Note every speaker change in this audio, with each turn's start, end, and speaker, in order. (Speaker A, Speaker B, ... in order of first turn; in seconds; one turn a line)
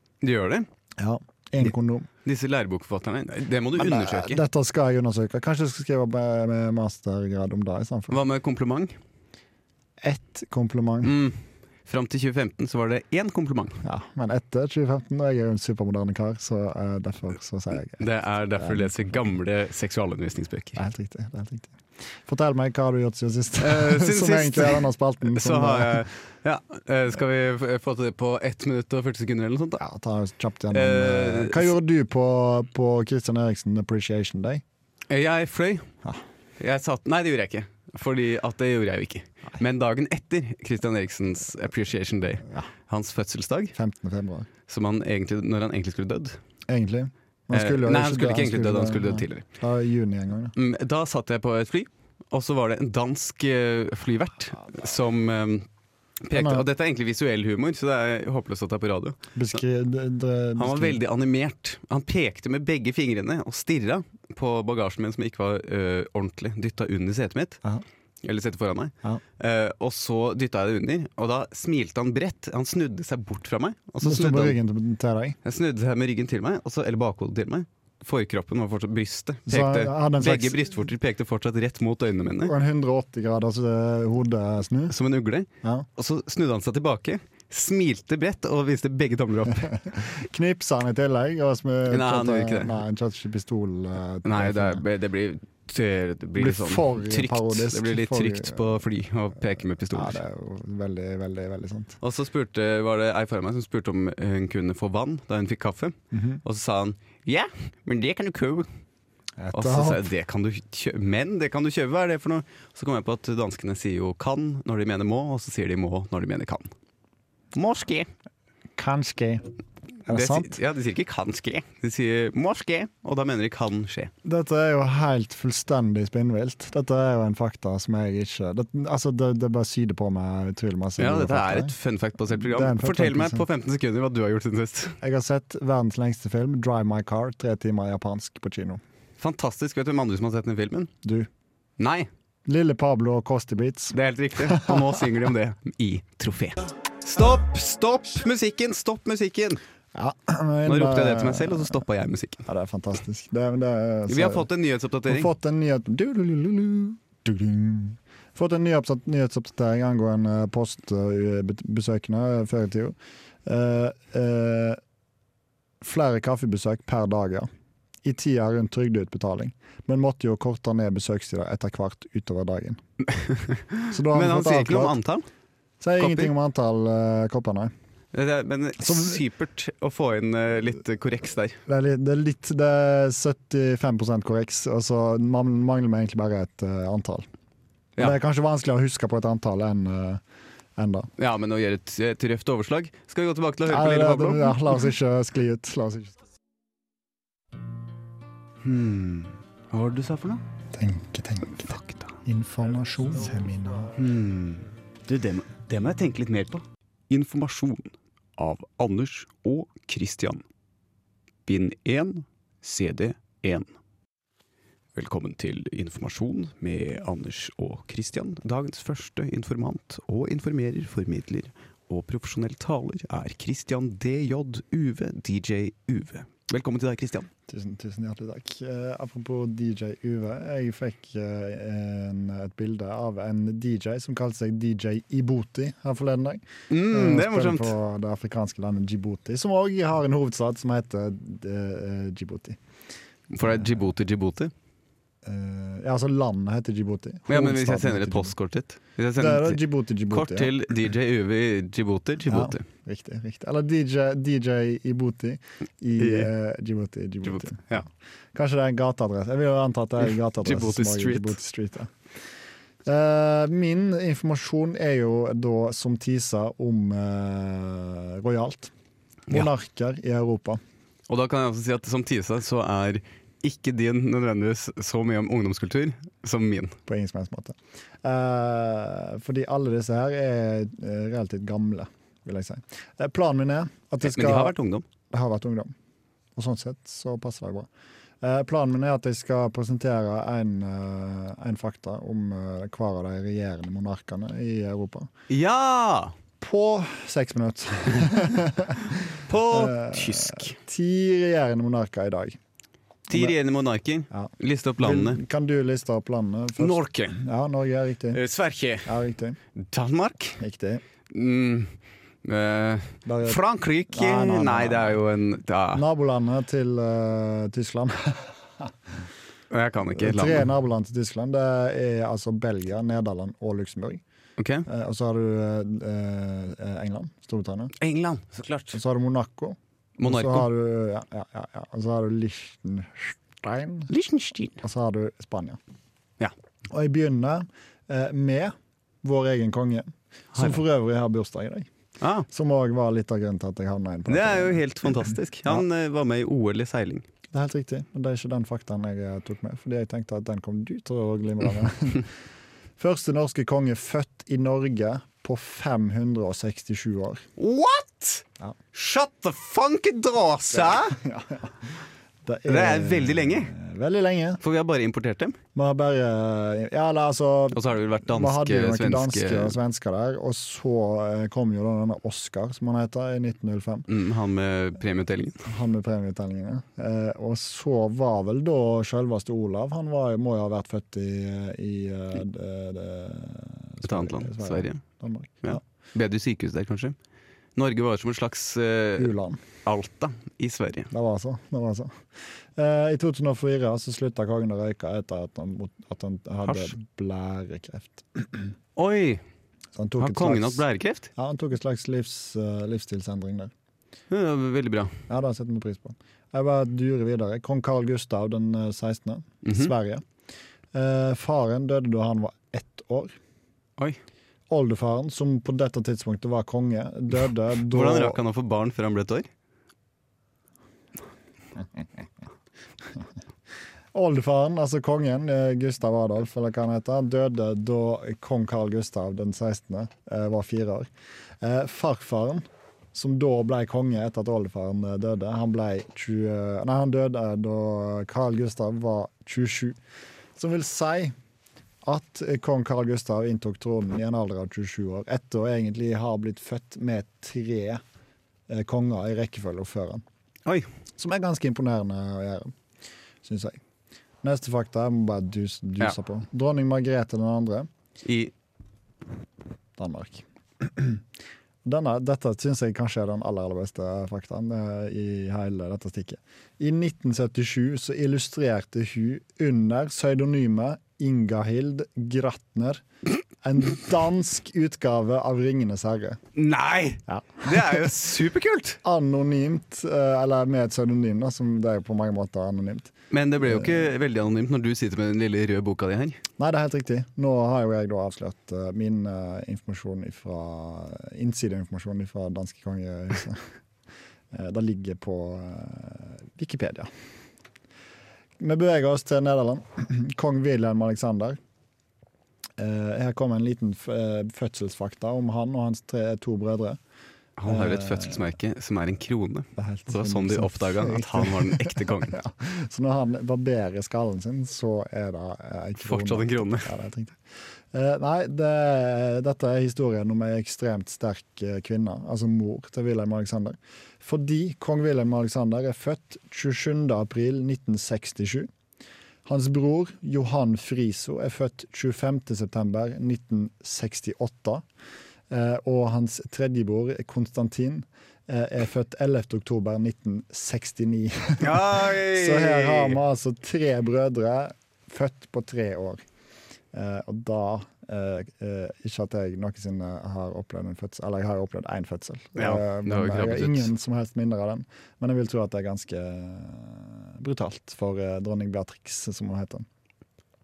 Speaker A: 0.2-0.7
Speaker B: 1.0-2.1
Speaker A: 2.2-4.4
Speaker B: 3.8-8.2
Speaker A: 8.1-8.9
Speaker B: 10.0-11.1
Speaker A: 11.0-13.8
Speaker B: 13.8-18.0
Speaker A: 18.0-20.8
Speaker B: 18.6-19.3
Speaker B: 20.8-26.0
Speaker A: 23.6-29.8
Speaker B: 29.8-34.6
Speaker A: 30.7-31.7
Speaker A: 35.1-35.9
Speaker A: 36.6-43.7
Speaker B: 43.7-44.5
Speaker A: 44.7-46.4
Speaker B: 46.7-50.5
Speaker A: 47.5-49.4
Speaker A: 50.5-55.7
Speaker A: 56.2-59.2
Speaker B: 56.3-56.6
Speaker B: 59.3-61.0
Speaker A: 60.6-67.6
Speaker A: 68.2-74.6
Speaker B: 74.0-75.4
Speaker A: 75.4-82.5
Speaker B: 79.5-80.8
Speaker B: 82.4-84.9
Speaker A: 84.9-89.8
Speaker B: 89.7-94.8
Speaker A: 91.9-92.8
Speaker A: 94.2-100.2
Speaker B: 96.4-98.8
Speaker B: 99.9-102.0
Speaker A: 102.0-108.7
Speaker B: 106.1-106.4
Speaker B: 109.4-110.0
Speaker A: 109.5-116.7
Speaker A: 117.5-118.1
Speaker B: 118.8-119.5
Speaker B: 120.0-120.5
Speaker A: 120.1-124.1
Speaker B: 124.2-131.7
Speaker A: 131.0-135.0
Speaker B: 132.3-133.4
Speaker B: 135.0-138.8
Speaker A: 139.2-140.9
Speaker B: 141.0-141.3
Speaker A: 141.8-142.1
Speaker B: 142.4-145.1
Speaker A: 143.9-149.6
Speaker B: 149.9-151.8
Speaker A: 150.7-152.4
Speaker B: 152.4-154.5
Speaker A: 154.1-155.3
Speaker B: 155.1-164.8
Speaker B: 165.8-167.5
Speaker B: 168.0-172.8
Speaker A: 173.1-175.2
Speaker B: 173.9-175.0
Speaker B: 175.8-177.7
Speaker A: 176.0-176.3
Speaker A: 178.1-181.6
Speaker B: 178.8-179.2
Speaker B: 181.7-187.2
Speaker B: 188.0-190.2
Speaker B: 190.8-191.1
Speaker A: 191.2-194.8
Speaker B: 193.7-196.2
Speaker A: 198.6-200.4
Speaker B: 200.7-203.9
Speaker A: 201.6-202.2
Speaker A: 203.9-210.4
Speaker A: 211.5-213.7
Speaker A: 214.9-227.3
Speaker B: 227.5-242.6
Speaker A: 236.7-237.7
Speaker A: 243.3-244.5
Speaker B: 245.2-248.3
Speaker A: 247.3-252.6
Speaker B: 249.2-250.5
Speaker B: 252.2-261.9
Speaker A: 256.0-256.3
Speaker A: 257.2-257.9
Speaker A: 260.4-261.4
Speaker B: 262.8-268.7
Speaker B: 269.3-270.6
Speaker A: 271.1-276.8
Speaker B: 276.9-284.5
Speaker A: 284.0-284.9
Speaker B: 285.1-285.7
Speaker B: 286.4-287.7
Speaker B: 288.2-295.1
Speaker A: 295.3-296.1
Speaker B: 296.4-302.4
Speaker A: 299.2-300.5
Speaker A: 303.1-305.2
Speaker B: 304.1-308.2
Speaker A: 306.6-307.2
Speaker A: 308.1-308.9
Speaker B: 308.8-309.4
Speaker A: 309.6-310.4
Speaker B: 310.4-310.8
Speaker A: 311.1-315.8
Speaker B: 313.1-315.0
Speaker B: 315.7-318.9
Speaker A: 319.5-320.4
Speaker B: 319.9-324.0
Speaker A: 324.4-324.7
Speaker B: 324.7-327.7
Speaker A: 327.8-328.8
Speaker B: 328.7-333.9
Speaker A: 330.0-330.5
Speaker A: 333.9-334.6
Speaker B: 334.6-335.6
Speaker B: 336.7-341.7
Speaker A: 340.3-340.6
Speaker A: 342.0-342.3
Speaker B: 342.3-345.6
Speaker A: 344.1-347.1
Speaker B: 347.3-352.1
Speaker B: 352.8-357.2
Speaker A: 357.4-361.0
Speaker B: 360.5-364.4
Speaker A: 362.5-363.5
Speaker A: 364.4-365.4
Speaker B: 365.5-373.9
Speaker A: 367.5-369.6
Speaker A: 373.9-375.5
Speaker B: 375.4-385.6
Speaker A: 383.8-384.8
Speaker A: 385.4-386.9
Speaker A: 387.6-389.1
Speaker B: 389.0-389.4
Speaker A: 389.6-390.9
Speaker B: 390.9-392.0
Speaker B: 392.5-398.5
Speaker A: 396.4-396.7
Speaker A: 398.8-399.2
Speaker B: 399.7-400.6
Speaker A: 400.0-401.1
Speaker B: 401.1-403.5
Speaker A: 404.1-404.9
Speaker B: 405.1-410.0
Speaker A: 409.4-409.7
Speaker B: 410.7-413.2
Speaker B: 414.5-418.2
Speaker A: 417.7-419.3
Speaker B: 423.9-430.9
Speaker B: 431.4-439.8
Speaker B: 440.4-441.1
Speaker B: 441.8-447.8
Speaker B: 448.5-450.0
Speaker B: 451.0-452.5
Speaker B: 453.2-453.6
Speaker B: 454.2-457.7
Speaker A: 458.0-458.3
Speaker B: 459.8-461.0
Speaker B: 461.6-472.8
Speaker B: 473.4-476.2
Speaker A: 476.3-478.8
Speaker B: 477.1-477.9
Speaker B: 478.8-483.9
Speaker A: 483.1-486.2
Speaker B: 486.4-493.5
Speaker B: 494.3-496.9
Speaker B: 498.4-501.4
Speaker B: 502.6-506.8
Speaker A: 507.4-512.2
Speaker B: 507.4-508.2
Speaker B: 509.6-517.2
Speaker A: 515.8-516.7
Speaker B: 517.7-528.5
Speaker B: 529.2-534.6
Speaker B: 535.3-546.0
Speaker A: 541.4-543.0
Speaker B: 546.7-559.6
Speaker A: 552.4-553.7